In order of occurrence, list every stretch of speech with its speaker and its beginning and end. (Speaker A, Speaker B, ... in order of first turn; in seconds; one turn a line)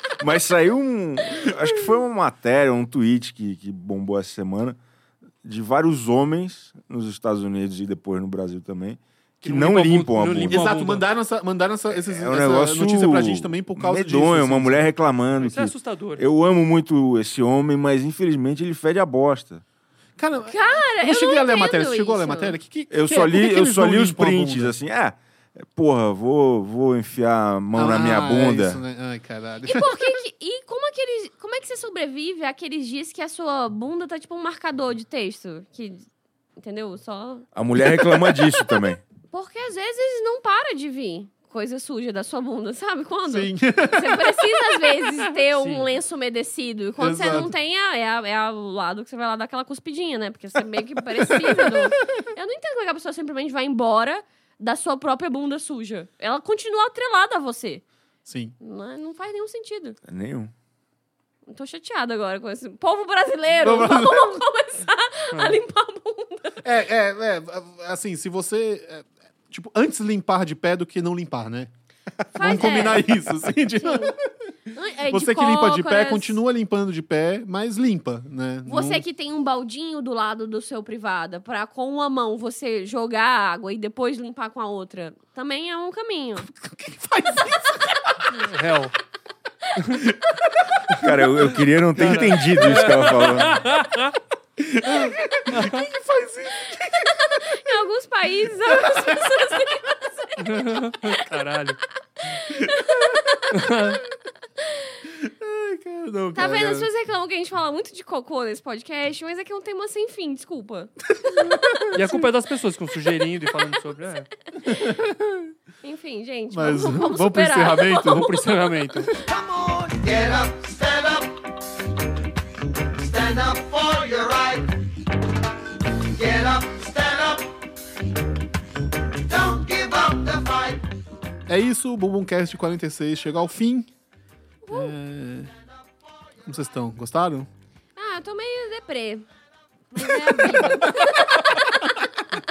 Speaker A: 0.2-4.8
Speaker A: 5.4-10.7
Speaker B: 9.4-11.1
Speaker C: 10.5-14.8
Speaker A: 11.9-19.6
Speaker B: 15.4-16.2
Speaker C: 20.2-24.7
Speaker D: 20.5-22.5
Speaker A: 22.9-28.8
Speaker C: 27.7-30.0
Speaker D: 29.6-36.0
Speaker D: 36.6-37.5
Speaker A: 37.5-39.0
Speaker D: 39.3-57.8
Speaker C: 43.3-44.9
Speaker B: 45.6-45.9
Speaker C: 47.0-47.5
Speaker C: 51.3-51.9
Speaker C: 58.2-58.5
Speaker D: 58.6-60.0
Speaker A: 60.0-60.5
Speaker D: 61.5-66.6
Speaker C: 63.6-64.4
Speaker B: 65.3-65.6
Speaker C: 66.6-71.7
Speaker C: 72.2-74.2
Speaker D: 72.3-73.0
Speaker D: 73.8-74.1
Speaker D: 74.7-76.4
Speaker C: 75.1-79.0
Speaker D: 78.7-86.5
Speaker C: 86.5-88.3
Speaker B: 88.3-88.9
Speaker C: 89.9-90.8
Speaker A: 90.9-93.6
Speaker B: 91.9-94.1
Speaker C: 94.6-97.5
Speaker B: 95.5-95.8
Speaker D: 97.3-100.8
Speaker C: 98.7-99.2
Speaker B: 100.4-101.8
Speaker D: 102.5-102.9
Speaker C: 102.7-103.5
Speaker B: 103.5-104.0
Speaker C: 105.2-106.9
Speaker D: 106.3-111.8
Speaker C: 111.3-112.0
Speaker B: 111.9-114.3
Speaker C: 114.6-115.5
Speaker D: 115.8-118.2
Speaker C: 116.5-118.4
Speaker B: 118.1-119.1
Speaker E: 119.2-121.4
Speaker E: 123.0-124.7
Speaker E: 126.0-127.5
Speaker E: 129.2-130.8
Speaker C: 131.5-133.9
Speaker D: 134.7-134.9
Speaker C: 134.7-135.5
Speaker C: 136.4-137.5
Speaker D: 137.9-139.2
Speaker D: 139.9-141.9
Speaker C: 140.2-141.4